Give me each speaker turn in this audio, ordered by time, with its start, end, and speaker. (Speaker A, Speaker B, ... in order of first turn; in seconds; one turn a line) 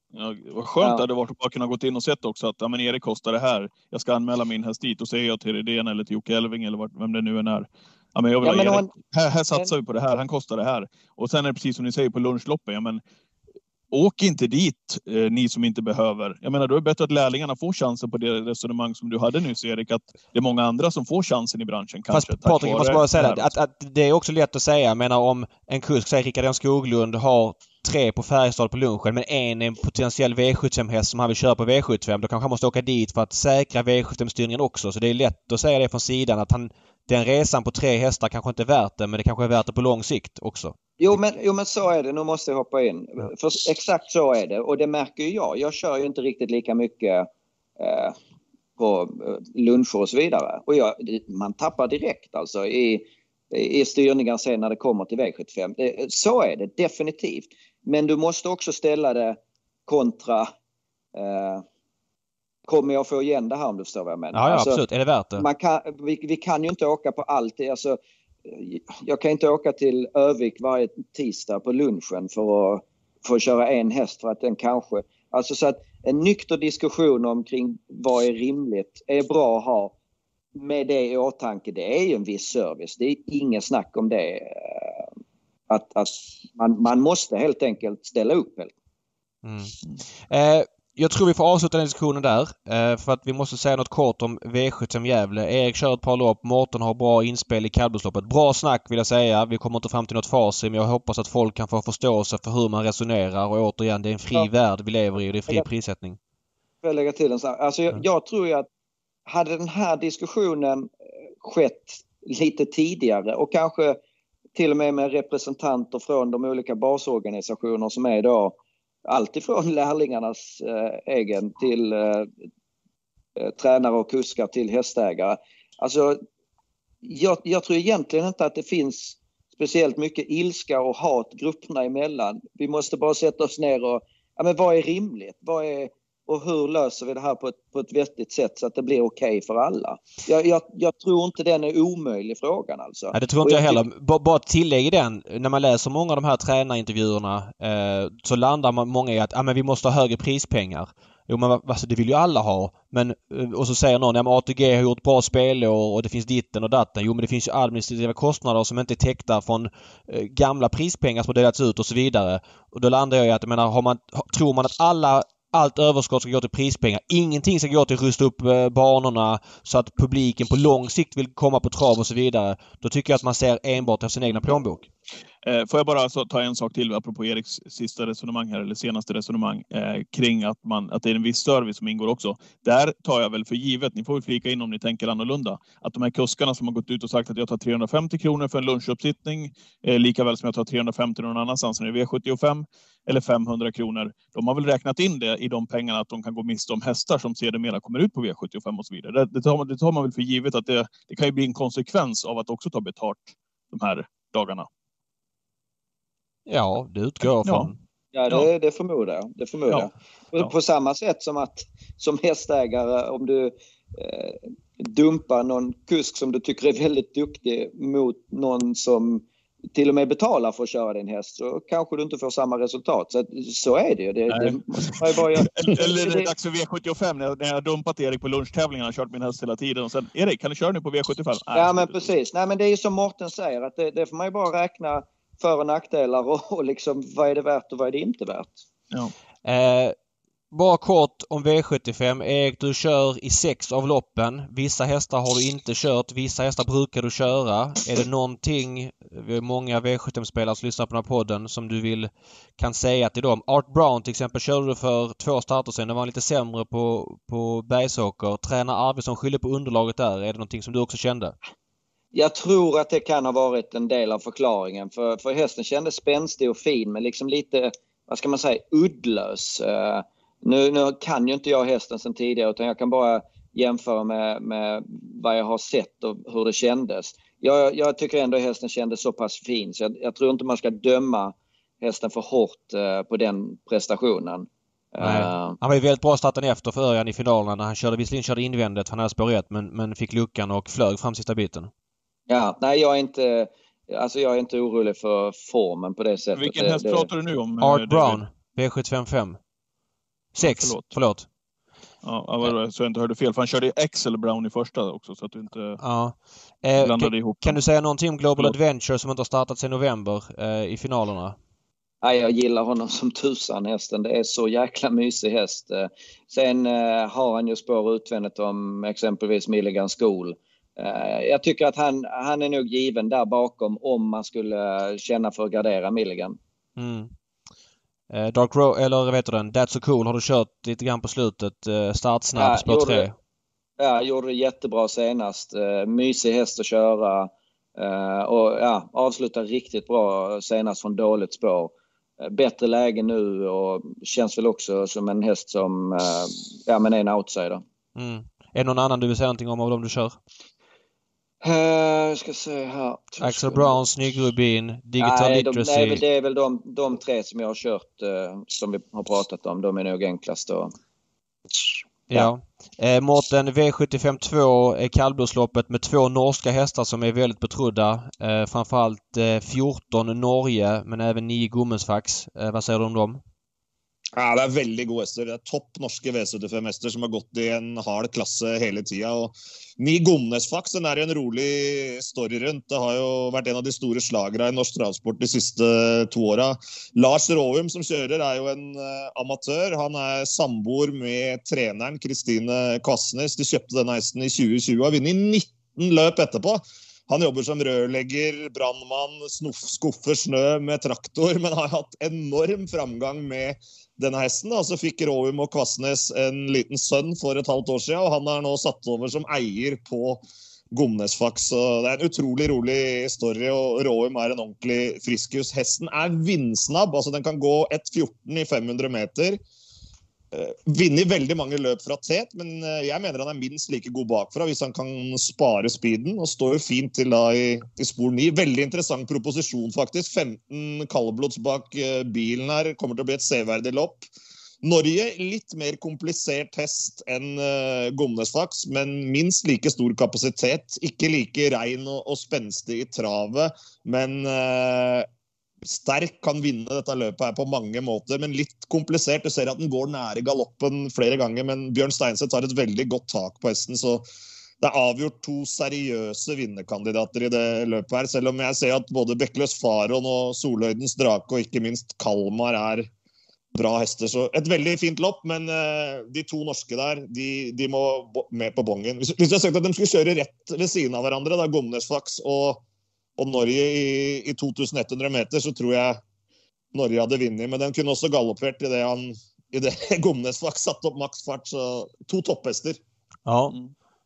Speaker A: 0.1-13.0
Speaker B: 0.8-1.0
Speaker B: 8.4-8.9
Speaker A: 13.9-23.5
Speaker C: 22.1-40.7
Speaker B: 41.0-47.3
Speaker B: 47.8-48.1
Speaker B: 48.8-60.5
Speaker B: 61.1-61.6
Speaker B: 62.7-64.8
Speaker C: 64.3-65.5
Speaker B: 65.4-79.9
Speaker B: 80.5-85.0
Speaker B: 85.7-88.7
Speaker C: 89.4-106.2
Speaker B: 106.8-108.7
Speaker B: 109.3-114.0
Speaker B: 114.5-122.3
Speaker B: 123.4-126.2
Speaker B: 127.0-143.8
Speaker C: 143.1-174.9
Speaker A: 175.4-204.7
Speaker C: 206.5-207.7
Speaker A: 207.4-207.7
Speaker B: 208.1-226.3
Speaker A: 209.7-210.5
Speaker A: 224.3-232.1
Speaker B: 231.5-238.6
Speaker C: 239.4-239.9
Speaker C: 240.5-261.3
Speaker B: 262.1-285.6
Speaker C: 285.0-291.7
Speaker B: 292.3-297.1
Speaker A: 296.3-298.2
Speaker C: 297.6-299.4
Speaker C: 300.3-301.2
Speaker A: 300.4-300.9
Speaker A: 302.0-305.8
Speaker C: 305.8-311.4
Speaker A: 306.8-307.6
Speaker B: 312.0-326.4
Speaker C: 326.8-327.1
Speaker C: 328.1-333.1
Speaker B: 332.4-333.1
Speaker B: 333.8-347.6
Speaker C: 347.9-350.1
Speaker B: 351.4-353.8
Speaker C: 353.2-356.0
Speaker B: 355.0-360.7
Speaker C: 362.1-373.2
Speaker D: 374.1-419.4
Speaker D: 420.3-434.0
Speaker D: 434.6-445.1
Speaker D: 445.6-454.0
Speaker D: 454.6-462.9
Speaker D: 463.5-472.6
Speaker D: 473.2-476.0
Speaker D: 476.7-482.8
Speaker C: 483.2-483.5